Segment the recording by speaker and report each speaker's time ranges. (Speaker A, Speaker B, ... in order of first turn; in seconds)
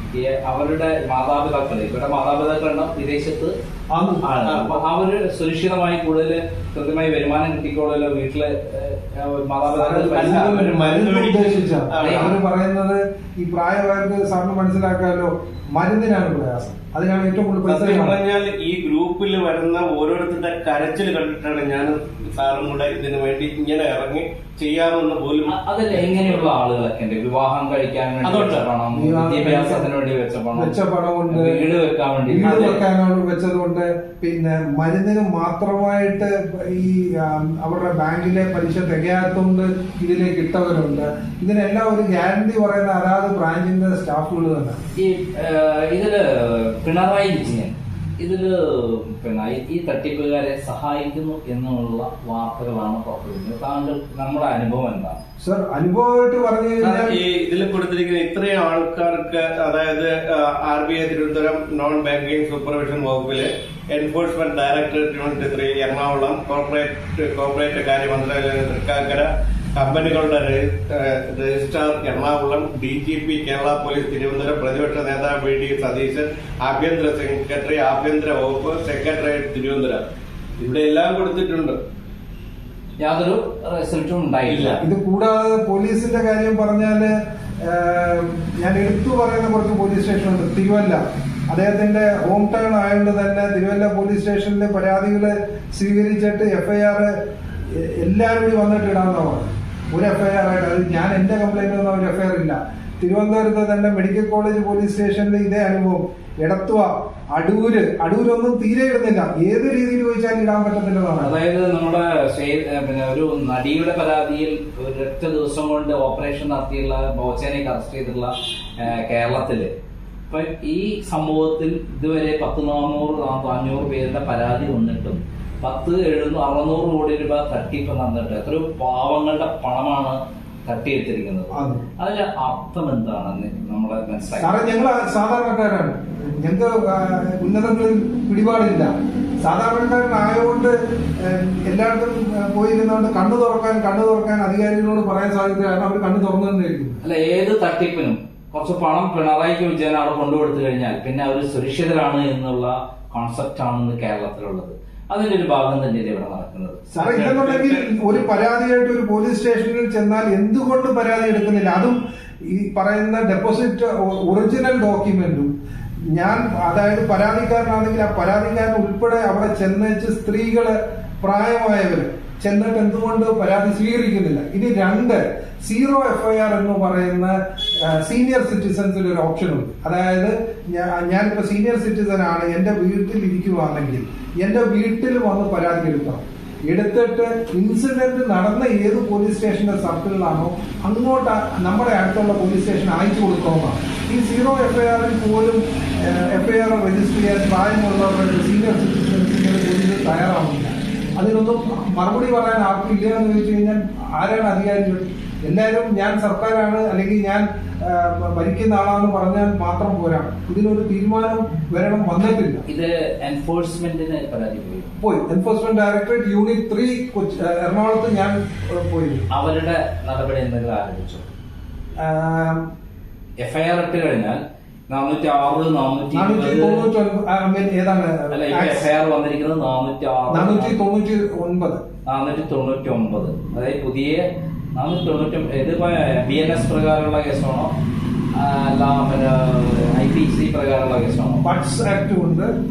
Speaker A: 0.2-3.5, 4.2-10.7, 12.0-12.3, 25.5-32.8, 45.0-55.2, 83.0-84.8, 111.2-119.7, 120.3-134.6, 147.0-158.0, 212.7-214.9, 219.3-221.3, 223.4-226.9, 228.3-230.8, 232.1-237.7, 238.3-241.5
Speaker B: 3.9-4.3, 9.7-18.2, 28.9-29.9, 30.5-31.6, 32.3-44.8, 55.4-57.2, 84.8-97.2, 97.7-111.4, 131.5-131.8, 134.4-147.0, 156.9-165.5, 166.1-212.6, 215.0-219.3, 222.0-222.7, 226.1-228.9, 230.3-231.8, 241.4-242.5
Speaker C: 4.5-4.8, 10.1-12.4, 17.7-26.5, 28.2-28.7, 56.8-80.0, 80.6-81.8, 84.5-84.8